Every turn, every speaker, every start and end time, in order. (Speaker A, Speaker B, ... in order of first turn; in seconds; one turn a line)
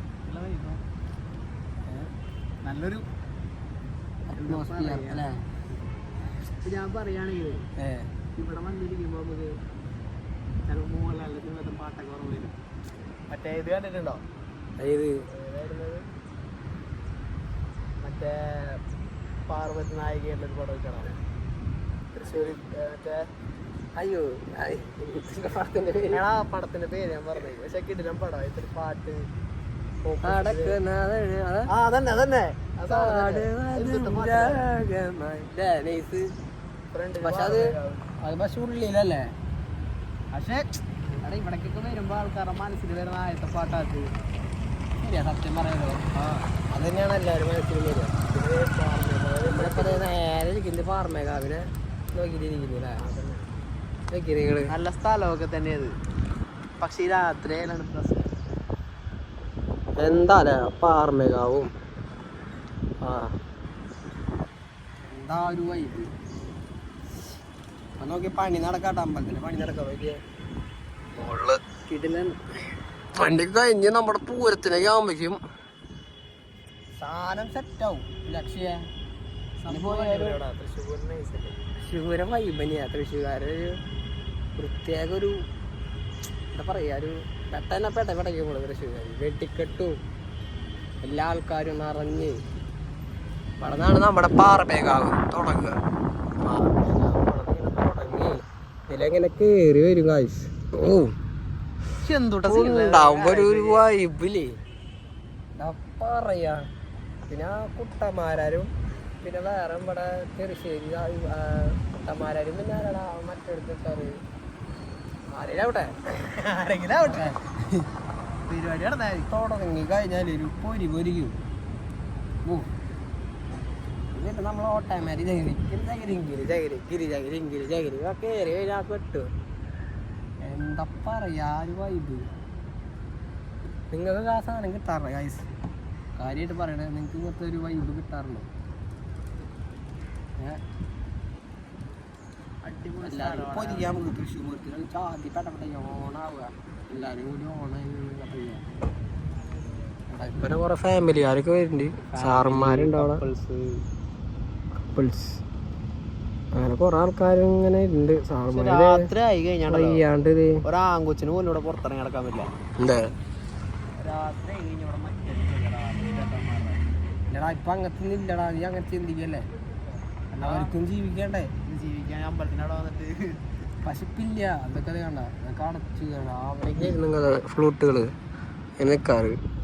Speaker A: 0.2-0.8
Speaker A: 2.6-3.0
Speaker B: 4.3-5.4
Speaker A: 4.4-5.3
Speaker A: 6.6-7.6
Speaker B: 7.8-8.1
Speaker A: 8.3-9.5
Speaker A: 10.7-12.6
Speaker A: 13.3-14.2
Speaker B: 14.8-15.2
Speaker A: 15.3-16.1
Speaker A: 18.0-18.8
Speaker A: 19.5-21.1
Speaker A: 22.2-23.2
Speaker B: 23.9-26.2
Speaker A: 26.1-29.2
Speaker A: 30.0-30.8
Speaker B: 30.2-31.7
Speaker A: 31.7-34.6
Speaker B: 32.8-36.3
Speaker A: 36.9-38.0
Speaker B: 37.2-39.3
Speaker A: 40.3-44.1
Speaker B: 45.0-46.1
Speaker B: 46.7-48.2
Speaker A: 48.3-50.1
Speaker B: 49.4-53.0
Speaker A: 53.0-53.5
Speaker B: 54.1-54.7
Speaker A: 54.7-55.9
Speaker A: 56.8-58.3
Speaker B: 60.0-61.7
Speaker B: 63.0-63.4
Speaker B: 65.1-66.1
Speaker B: 68.0-70.2
Speaker B: 71.1-72.4
Speaker B: 73.1-75.4
Speaker B: 77.0-78.9
Speaker A: 79.6-81.5
Speaker B: 79.7-80.4
Speaker B: 81.8-83.8
Speaker B: 84.5-85.4
Speaker B: 86.5-90.0
Speaker B: 91.0-92.4
Speaker B: 93.6-95.8
Speaker B: 96.4-101.1
Speaker A: 102.0-103.8
Speaker B: 102.4-104.6
Speaker B: 105.5-106.7
Speaker B: 107.3-114.2
Speaker B: 115.3-116.0
Speaker A: 116.3-117.3
Speaker B: 117.0-117.9
Speaker A: 118.4-119.3
Speaker B: 119.3-121.4
Speaker B: 124.1-129.3
Speaker B: 130.4-132.3
Speaker B: 133.9-135.5
Speaker B: 136.2-138.5
Speaker A: 142.6-144.0
Speaker B: 143.0-148.6
Speaker B: 150.1-153.2
Speaker A: 152.1-153.8
Speaker B: 154.9-155.4
Speaker B: 156.5-159.1
Speaker A: 158.5-160.0
Speaker B: 159.7-160.6
Speaker A: 160.6-162.5
Speaker B: 162.8-163.1
Speaker A: 164.0-166.8
Speaker B: 167.3-169.5
Speaker B: 170.3-171.5
Speaker A: 170.4-170.8
Speaker A: 171.7-173.4
Speaker B: 173.8-178.1
Speaker B: 178.8-179.4